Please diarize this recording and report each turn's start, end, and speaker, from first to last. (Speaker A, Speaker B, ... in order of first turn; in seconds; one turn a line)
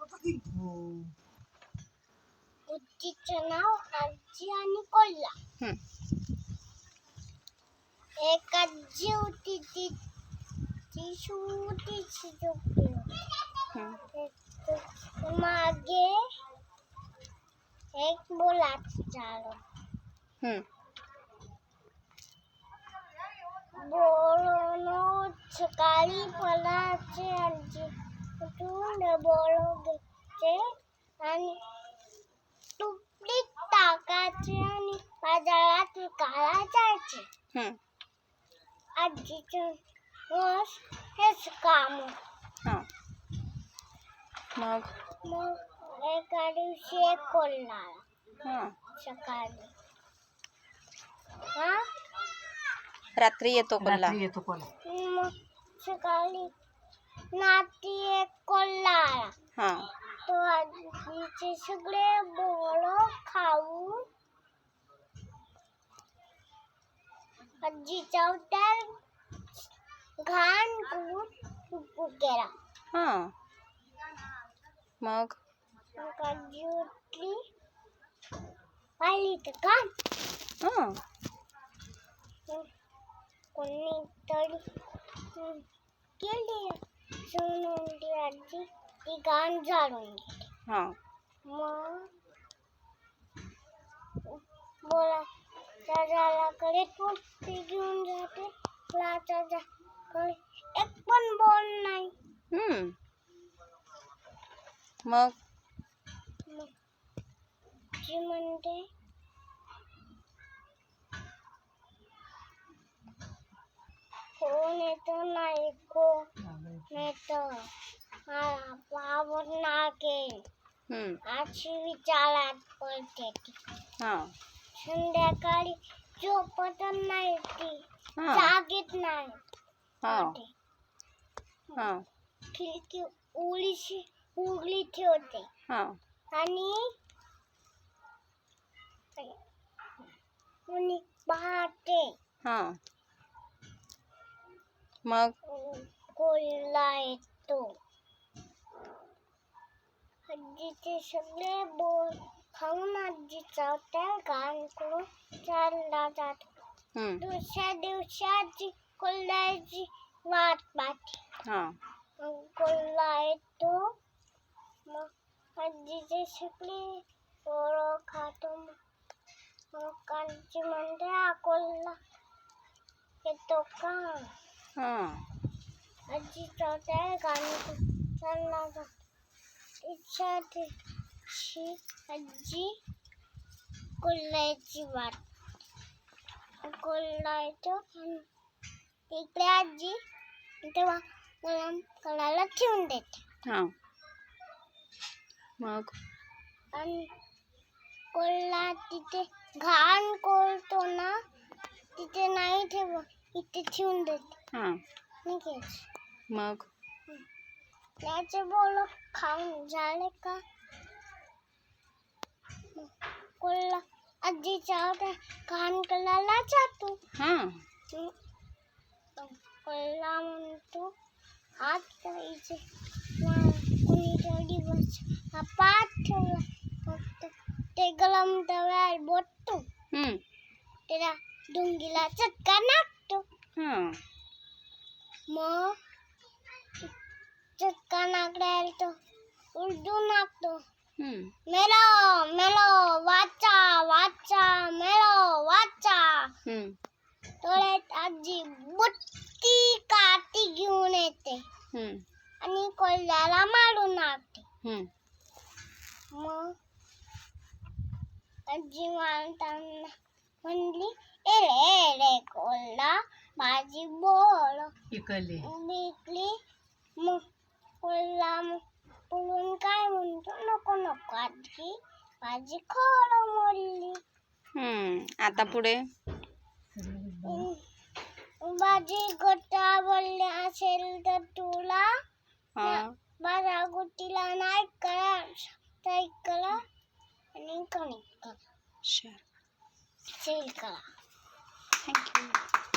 Speaker A: 0.5-1.1
Speaker B: 2.7-5.4
Speaker B: 8.2-10.0
Speaker B: 10.9-13.2
Speaker C: 13.7-14.0
Speaker B: 14.0-16.2
Speaker B: 17.9-19.6
Speaker C: 20.4-20.6
Speaker B: 23.7-31.6
Speaker B: 32.8-37.3
Speaker B: 39.0-39.8
Speaker B: 40.3-42.2
Speaker C: 44.5-44.9
Speaker B: 45.2-48.0
Speaker C: 48.4-48.8
Speaker B: 48.9-49.7
Speaker B: 51.5-51.8
Speaker C: 53.1-54.2
Speaker A: 53.8-54.7
Speaker B: 54.8-56.5
Speaker B: 57.3-59.3
Speaker C: 59.5-59.9
Speaker B: 60.2-64.0
Speaker B: 67.6-69.0
Speaker B: 70.2-72.5
Speaker C: 72.9-73.3
Speaker C: 75.0-75.4
Speaker B: 75.9-77.4
Speaker B: 79.0-79.9
Speaker C: 80.6-81.0
Speaker B: 83.5-84.7
Speaker B: 85.3-85.6
Speaker B: 86.2-90.5
Speaker C: 90.7-91.0
Speaker B: 91.4-92.1
Speaker B: 94.2-95.3
Speaker B: 95.8-102.1
Speaker C: 102.5-102.9
Speaker C: 105.0-105.3
Speaker B: 108.0-108.9
Speaker B: 114.4-116.3
Speaker A: 116.5-116.9
Speaker B: 116.9-117.7
Speaker B: 118.3-120.4
Speaker C: 120.9-121.2
Speaker B: 121.3-123.5
Speaker C: 124.0-124.3
Speaker B: 124.7-129.4
Speaker C: 128.2-128.5
Speaker C: 130.0-130.4
Speaker B: 130.0-130.5
Speaker C: 131.8-132.1
Speaker B: 132.5-135.5
Speaker C: 135.7-136.0
Speaker B: 136.3-136.9
Speaker B: 140.7-142.1
Speaker C: 142.4-142.8
Speaker C: 145.0-145.3
Speaker B: 145.4-147.7
Speaker B: 150.2-156.5
Speaker C: 156.9-157.2
Speaker B: 157.2-161.2
Speaker C: 161.4-161.8
Speaker B: 162.2-163.9
Speaker B: 164.9-168.8
Speaker B: 169.7-172.0
Speaker B: 173.2-174.3
Speaker C: 174.8-175.2
Speaker B: 176.1-178.9
Speaker B: 179.8-180.7
Speaker B: 181.3-182.8
Speaker B: 184.0-185.2
Speaker B: 186.6-188.3
Speaker B: 189.1-190.0
Speaker B: 190.6-193.2
Speaker C: 193.4-193.7
Speaker C: 195.6-195.9
Speaker B: 196.7-197.1
Speaker B: 198.1-201.2
Speaker B: 201.9-204.4
Speaker C: 204.5-204.8
Speaker B: 205.2-205.8
Speaker C: 206.3-206.7
Speaker B: 208.0-210.4
Speaker B: 212.7-217.0
Speaker C: 217.1-217.6
Speaker B: 219.2-220.9
Speaker B: 221.6-222.6
Speaker B: 223.2-229.6
Speaker C: 229.9-230.2
Speaker B: 230.9-233.2
Speaker C: 233.6-234.0
Speaker B: 235.3-235.8
Speaker B: 237.6-238.9
Speaker B: 239.5-240.6
Speaker C: 241.0-241.3
Speaker B: 241.5-246.3
Speaker C: 246.4-246.8
Speaker B: 247.4-251.4
Speaker C: 251.7-252.0
Speaker B: 252.4-254.4
Speaker C: 254.6-254.9
Speaker B: 256.1-256.5
Speaker B: 258.5-264.7
Speaker A: 264.9-265.5
Speaker B: 265.4-266.4
Speaker B: 267.0-267.2
Speaker B: 267.8-274.0
Speaker C: 274.5-275.8
Speaker A: 276.7-277.5
Speaker B: 277.2-277.6
Speaker B: 278.4-281.9
Speaker C: 282.6-283.0
Speaker B: 282.6-286.6
Speaker B: 287.3-288.4
Speaker C: 288.8-289.2
Speaker B: 290.1-290.8
Speaker C: 291.8-292.4